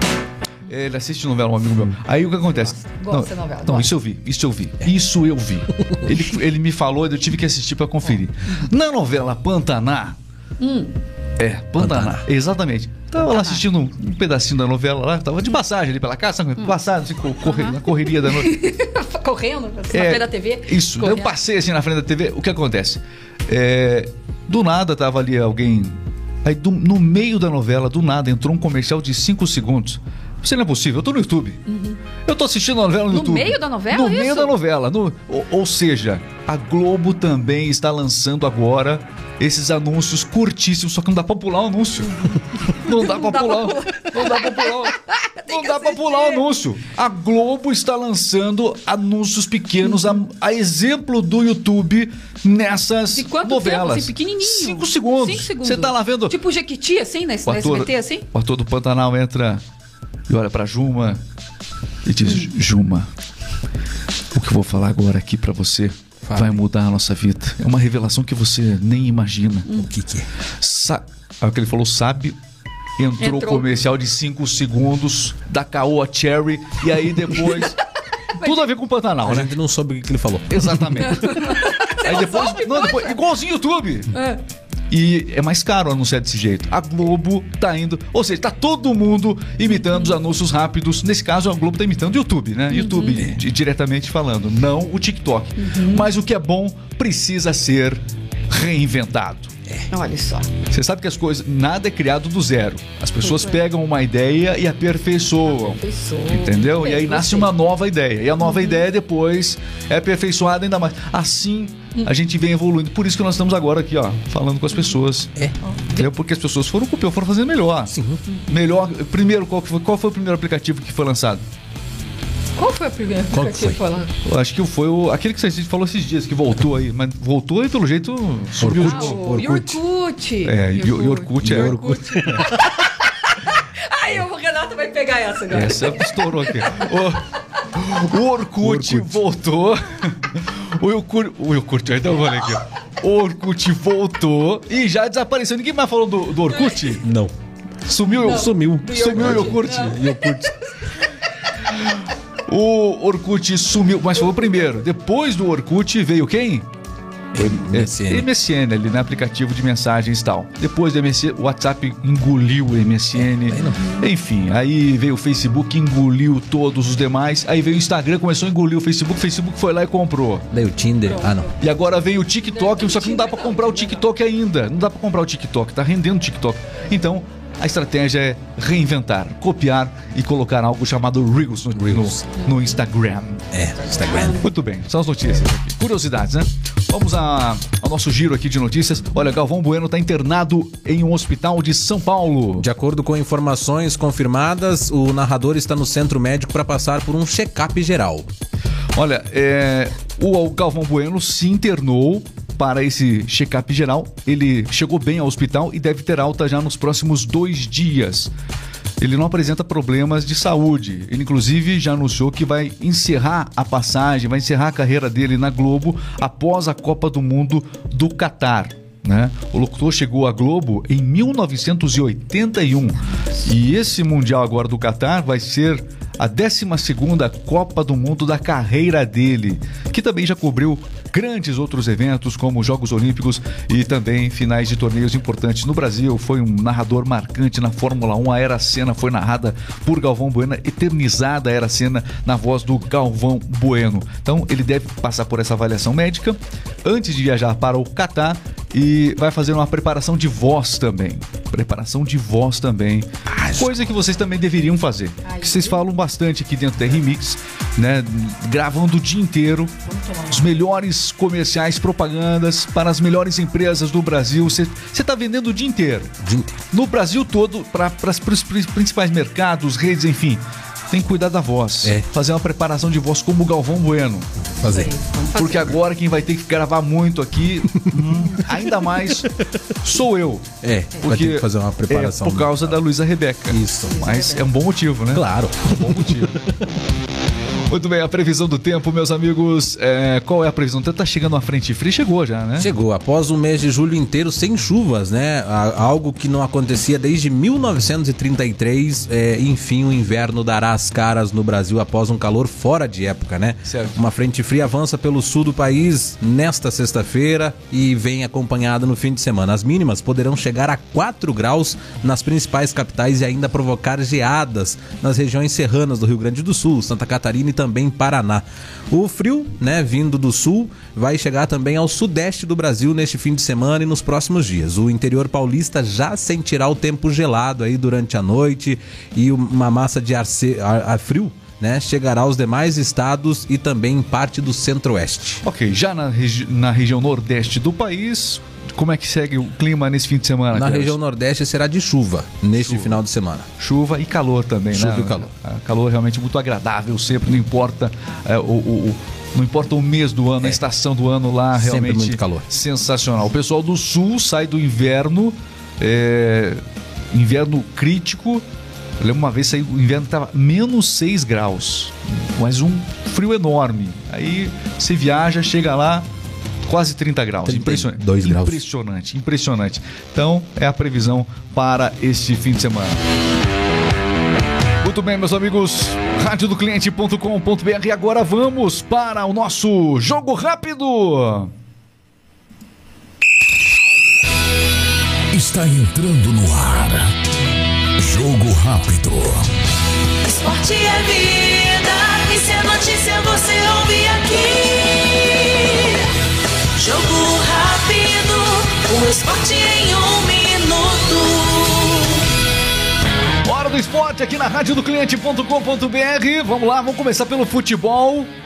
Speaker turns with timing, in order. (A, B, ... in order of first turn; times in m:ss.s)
0:00.7-0:10.2 A
0:02.5-0:03.9 B
0:10.6-0:10.9 B
0:11.4-0:18.6 A
0:11.8-0:12.2 C
0:13.2-0:13.6 B
0:17.4-0:21.3 B
0:19.9-0:25.9 A
0:26.4-0:31.6 A
0:31.7-0:32.0 B
0:32.2-0:56.4 A
0:33.1-0:34.5 B
0:42.7-0:46.4 B
0:53.1-0:58.2 B
0:57.4-0:59.6 A
1:00.3-1:01.2 A
1:02.0-1:03.1 A
1:04.3-1:09.8 A
1:06.2-1:06.6 C
1:09.7-1:10.3 C
1:10.6-1:12.4 A
1:13.0-1:17.8 A
1:13.2-1:13.7 B
1:18.4-1:19.5 A
1:19.2-1:21.1 C
1:20.5-1:24.2 A
1:21.0-1:23.2 B
1:24.1-1:24.4 B
1:24.9-1:39.5 A
1:32.7-1:33.3 B
1:35.6-1:36.1 B
1:39.9-1:40.5 B
1:40.7-1:55.3 A
1:43.2-1:43.6 B
1:45.5-1:47.5 B
1:55.7-1:56.1 B
1:55.9-1:57.9 A
1:57.9-1:58.2 C
1:58.5-2:01.4 A
2:02.6-2:04.1 B
2:03.3-2:03.8 C
2:04.2-2:09.4 A
2:08.6-2:09.8 C
2:08.8-2:16.9 B
2:10.4-2:11.8 A
2:11.4-2:12.8 C
2:15.5-2:27.0 A
2:18.6-2:19.2 C
2:26.5-2:27.0 B
2:27.0-2:27.3 C
2:27.9-2:30.1 A
2:28.0-2:30.5 C
2:28.2-2:31.1 B
2:31.6-2:36.7 A
2:37.3-2:38.3 C
2:37.5-2:50.5 A
2:43.2-2:43.8 C
2:50.5-2:51.5 C
2:51.0-2:51.5 B
2:51.6-3:03.5 A
2:52.6-2:54.0 B
3:01.8-3:02.2 C
3:03.5-3:04.4 C
3:04.0-3:04.3 B
3:04.2-3:12.7 A
3:12.6-3:18.3 C
3:19.0-3:28.3 A
3:29.0-4:19.7 A
4:13.3-4:13.8 C
4:15.2-4:15.8 B
4:19.9-4:20.5 B
4:20.3-4:26.1 A
4:26.2-4:26.6 C
4:26.7-4:34.3 A
4:34.6-4:34.9 C
4:34.6-4:35.8 B
4:35.4-4:40.5 A
4:39.2-4:39.5 C
4:40.6-4:42.8 C
4:41.0-4:46.4 A
4:43.5-4:43.9 C
4:43.9-4:44.4 B
4:45.1-4:46.5 C
4:47.7-4:52.7 A
4:52.6-5:35.4 C
5:03.6-5:04.0 A
5:35.4-5:41.0 A
5:40.5-5:43.5 C
5:42.5-5:43.0 A
5:43.6-5:58.4 A
5:44.7-5:45.3 C
5:51.6-5:52.5 C
5:59.0-6:06.1 A
6:06.6-6:13.0 A
6:07.4-6:08.6 C
6:14.8-6:21.5 A
6:25.3-6:27.1 D
6:28.0-6:29.5 D
6:30.2-6:36.1 E
6:36.8-6:42.2 E
6:43.4-6:48.3 A